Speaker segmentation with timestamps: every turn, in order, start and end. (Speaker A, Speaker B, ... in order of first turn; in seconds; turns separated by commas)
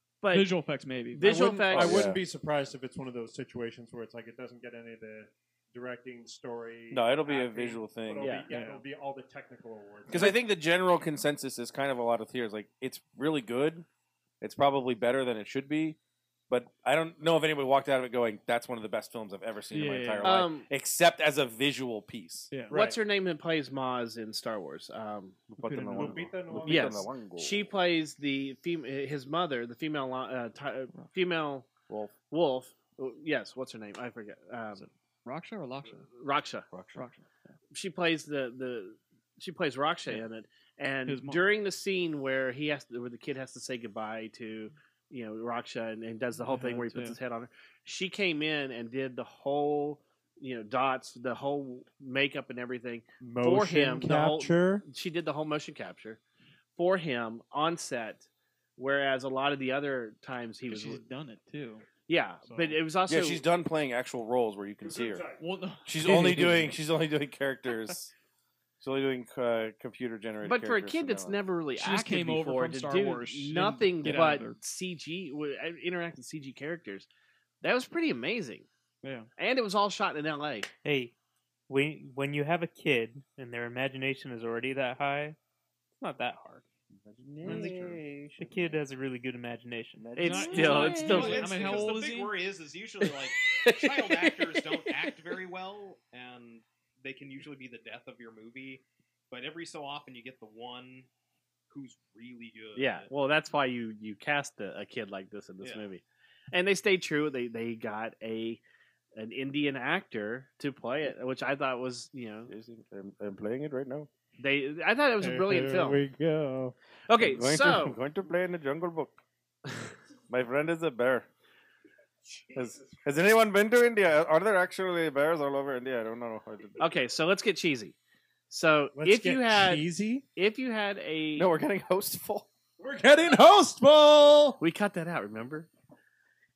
Speaker A: 0.2-0.5, Speaker B: 0.3-1.6, Speaker A: 1.1-2.1, Speaker C: 1.2-2.2, Speaker D: 1.6-10.3, Speaker C: 6.9-8.5, Speaker A: 8.2-8.5, Speaker B: 8.5-8.8, Speaker C: 10.1-13.8, Speaker C: 14.4-16.0, Speaker C: 16.5-22.5, Speaker B: 19.7-20.4, Speaker A: 20.2-20.6, Speaker A: 22.7-25.4, Speaker D: 22.7-23.0, Speaker C: 25.5-27.7, Speaker B: 25.6-26.3, Speaker D: 25.9-27.1, Speaker A: 26.6-31.7, Speaker C: 31.9-32.1, Speaker A: 32.3-34.8, Speaker B: 34.7-36.1, Speaker A: 36.1-36.6, Speaker C: 36.7-37.0, Speaker B: 36.9-37.5, Speaker A: 37.7-56.2, Speaker B: 41.0-41.5, Speaker B: 46.4-47.2, Speaker D: 53.2-54.8, Speaker A: 56.8-61.0, Speaker B: 60.7-61.8, Speaker A: 62.1-63.4, Speaker B: 62.4-62.8, Speaker C: 63.1-65.2, Speaker D: 64.8-65.4, Speaker B: 65.3-66.8, Speaker C: 65.8-68.1, Speaker C: 68.8-71.3, Speaker A: 70.4-77.1, Speaker B: 71.8-74.6, Speaker A: 77.6-78.7, Speaker B: 79.0-79.3, Speaker A: 79.4-80.7, Speaker E: 80.8-81.1, Speaker E: 81.7-85.4, Speaker E: 85.9-86.6, Speaker C: 87.0-88.5, Speaker E: 87.4-90.2, Speaker C: 90.0-90.9, Speaker A: 90.2-91.7, Speaker B: 90.2-92.3, Speaker F: 90.8-101.1, Speaker A: 93.1-95.1, Speaker F: 101.7-103.1, Speaker A: 102.8-108.6, Speaker A: 109.1-112.5, Speaker C: 112.5-114.1, Speaker A: 114.4-116.0, Speaker D: 115.2-116.7, Speaker A: 117.1-118.0, Speaker C: 117.2-119.1, Speaker C: 120.3-121.3, Speaker C: 122.5-126.8, Speaker A: 126.8-128.0, Speaker A: 128.5-131.5, Speaker D: 128.9-130.2, Speaker C: 131.3-132.5, Speaker D: 132.8-134.6, Speaker A: 134.6-135.7